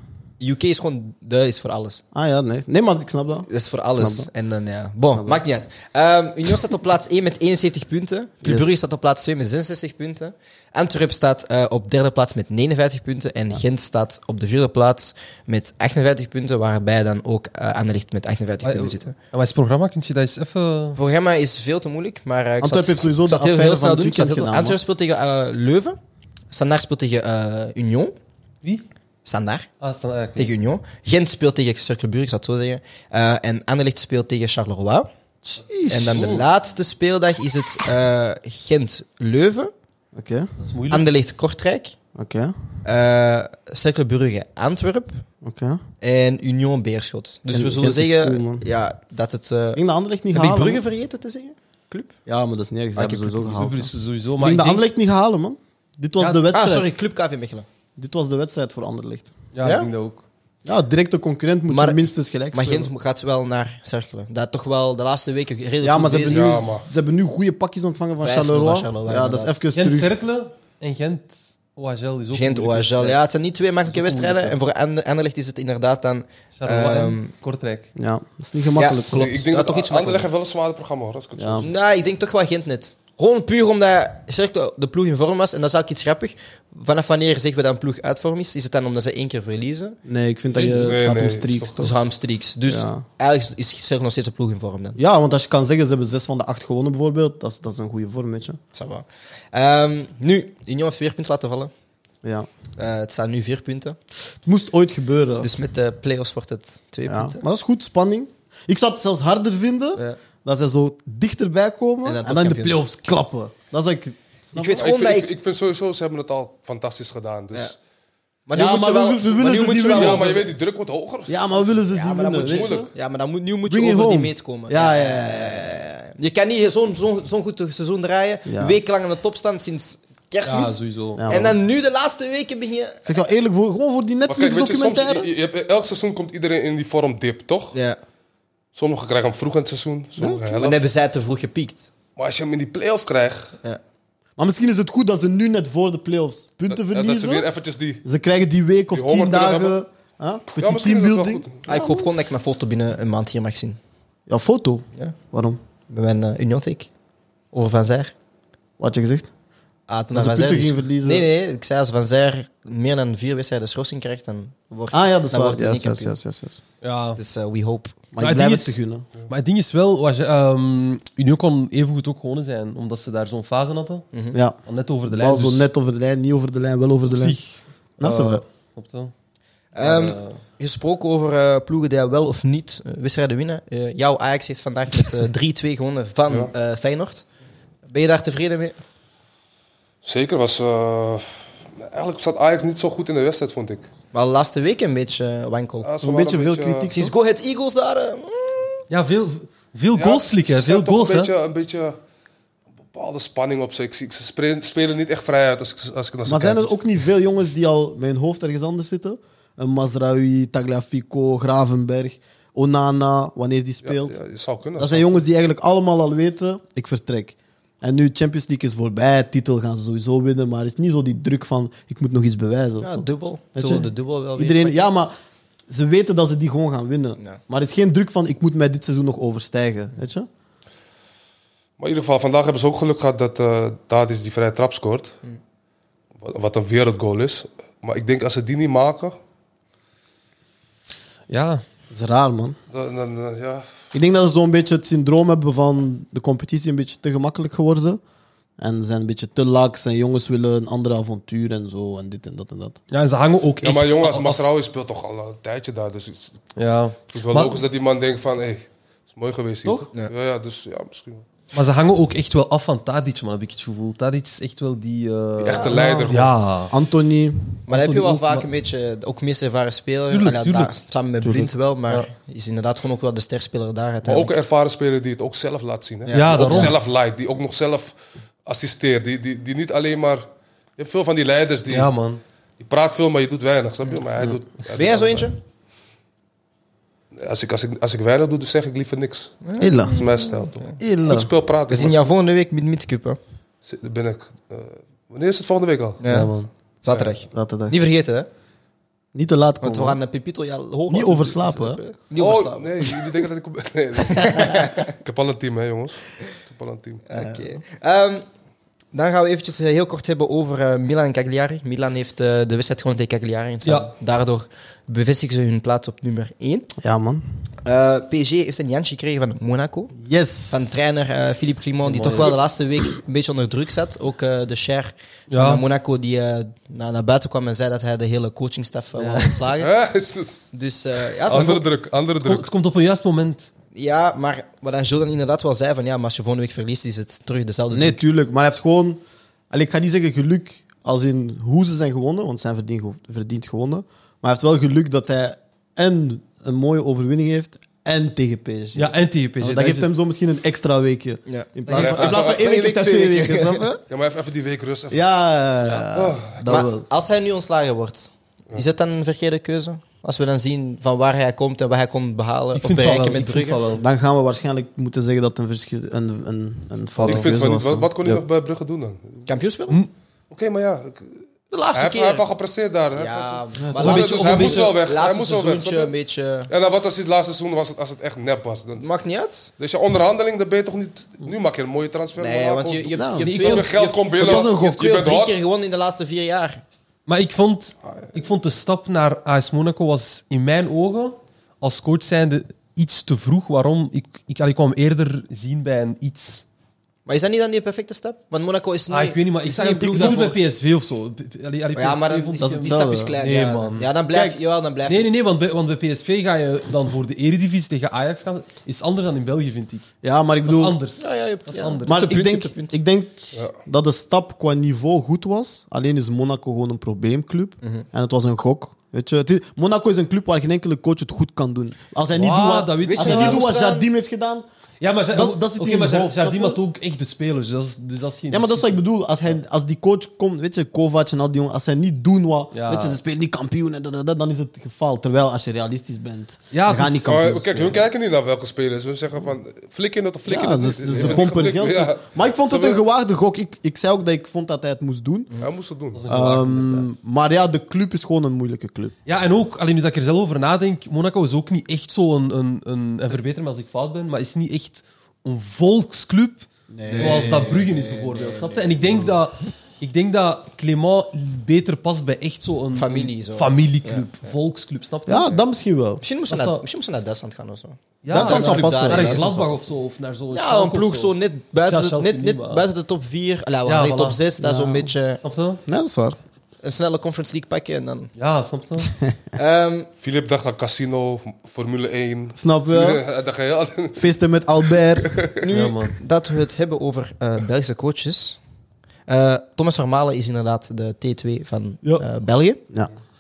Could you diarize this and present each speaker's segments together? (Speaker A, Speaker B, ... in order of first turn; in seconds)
Speaker A: 0.4-2.0, 3.5-19.1, 21.0-26.0, 26.5-28.1, 29.2-29.7, 30.4-35.1, 35.9-39.7, 40.9-42.0, 42.8-45.2, 46.0-49.8, 50.3-52.1, 56.5-57.7, 59.6-59.9, 61.7-66.6, 68.2-69.5, 72.3-77.3, 78.8-80.3, 81.6-90.0, 91.8-95.0, 98.7-101.7, 102.8-104.0, 105.4-107.4, 112.0-112.8, 114.5-115.3, 118.5-120.4, 121.9-133.1, 137.7-138.0, 140.5-141.9, 151.7-153.8, 155.9-156.9, 157.5-158.1, 159.9-166.2, 167.2-168.0, 174.1-174.4, 179.8-187.3, 187.9-188.8, 194.1-195.9, 196.9-198.8, 222.8-224.9, 267.7-274.3, 276.1-276.7, 284.7-285.4, 289.4-290.7, 291.7-293.2, 296.0-298.3, 299.6-303.0, 304.1-304.9, 307.1-308.2, 308.9-316.7, 317.6-320.0, 320.5-329.7, 330.5-331.7, 333.7-338.0, 351.3-353.6, 356.4-363.6, 369.3-369.8, 371.5-372.2, 372.9-376.5, 378.8-379.5, 382.2-386.6, 397.1-400.4, 401.8-405.1, 411.0-412.7, 422.9-423.9, 456.9-459.1, 462.7-464.1, 466.0-469.6, 470.3-475.2, 476.6-478.1, 479.4-479.9, 485.4-488.4, 489.1-492.6
Speaker B: 2.1-4.3, 5.1-5.4, 8.4-8.8, 22.6-24.8, 35.5-36.4, 40.1-40.5, 42.1-42.5, 45.4-45.8, 47.5-48.6, 49.8-50.8, 52.3-57.0, 58.0-59.3, 60.6-62.9, 65.8-70.1, 78.0-79.4, 81.4-81.7, 90.1-92.0, 92.7-93.0, 95.0-98.6, 104.5-105.5, 107.1-114.9, 118.5-120.5, 121.3-122.9, 123.7-125.8, 128.5-128.8, 131.2-131.6, 133.1-135.3, 140.2-140.5, 144.4-147.5, 148.0-152.1, 154.3-155.6, 158.8-159.3, 160.1-161.3, 164.9-166.6, 168.1-169.1, 174.3-177.4, 178.0-178.4, 196.0-197.1, 206.3-214.2, 214.8-225.1, 225.7-230.3, 241.9-242.6, 243.9-248.0, 248.6-252.8, 265.6-266.2, 266.7-267.6, 271.2-271.5, 289.6-290.0, 290.8-291.3, 297.3-297.8, 299.1-300.0, 300.9-301.8, 307.1-307.5, 316.8-317.2, 320.0-320.8, 329.0-329.4, 337.7-339.0, 339.5-353.8, 354.9-356.9, 363.7-367.9, 373.6-373.9, 382.9-383.4, 384.2-384.8, 399.8-400.4, 402.4-403.1, 404.1-404.4, 410.0-410.8, 411.9-424.5, 425.1-426.6, 428.3-437.8, 440.3-445.3, 446.1-448.9, 456.7-457.5, 465.1-466.0, 468.1-469.4, 474.4-474.9, 475.7-476.2, 482.4-483.0, 484.0-485.1
Speaker C: 18.6-21.0, 29.8-30.5, 36.1-36.4, 40.6-41.1, 53.0-54.8, 56.2-56.4, 59.5-60.2, 69.8-73.2, 73.9-74.5, 76.6-77.9, 130.4-131.3, 166.8-167.2, 168.2-174.1, 174.7-175.7, 177.1-179.1, 179.8-180.4, 198.9-201.3, 241.3-241.6, 252.9-254.4, 256.6-257.6, 261.5-266.7, 267.7-268.5, 270.1-270.7, 276.1-276.8, 281.7-282.2, 296.1-296.4, 313.6-313.9, 325.3-325.6, 332.2-333.5, 348.8-349.9, 362.6-363.8, 367.0-367.3, 373.8-374.7, 383.2-383.7, 387.1-396.4, 398.9-403.9, 404.9-409.9, 410.4-412.1, 422.1-423.5, 424.8-428.8, 432.5-433.0, 436.5-437.3, 440.9-441.3, 445.9-446.9, 449.1-465.4, 466.3-466.6, 468.0-472.6, 473.7-474.2, 475.2-475.6, 478.2-478.9, 485.5-486.0
Speaker D: 66.3-66.9, 79.1-81.7, 90.5-92.0, 114.7-117.8, 119.8-121.8, 122.4-122.9, 134.3-137.8, 138.7-140.9, 142.2-143.6, 146.7-148.0, 148.9-149.8, 150.6-151.6, 190.0-193.9, 195.8-196.9, 200.0-202.0, 202.9-206.8, 213.8-215.2, 231.8-235.2, 236.2-239.2, 242.7-243.7, 253.6-256.4, 257.1-261.3, 265.4-266.3, 274.0-281.9, 282.6-285.3, 287.2-292.1, 293.6-296.0, 296.9-297.2, 302.2-307.0, 329.6-330.5, 331.2-332.5, 351.7-352.4, 353.9-355.0, 355.9-356.5, 367.1-369.3, 370.3-371.2, 371.7-375.9, 376.5-378.9, 379.6-385.4, 437.0-442.8, 445.4-446.0, 480.0-484.1, 484.7-485.4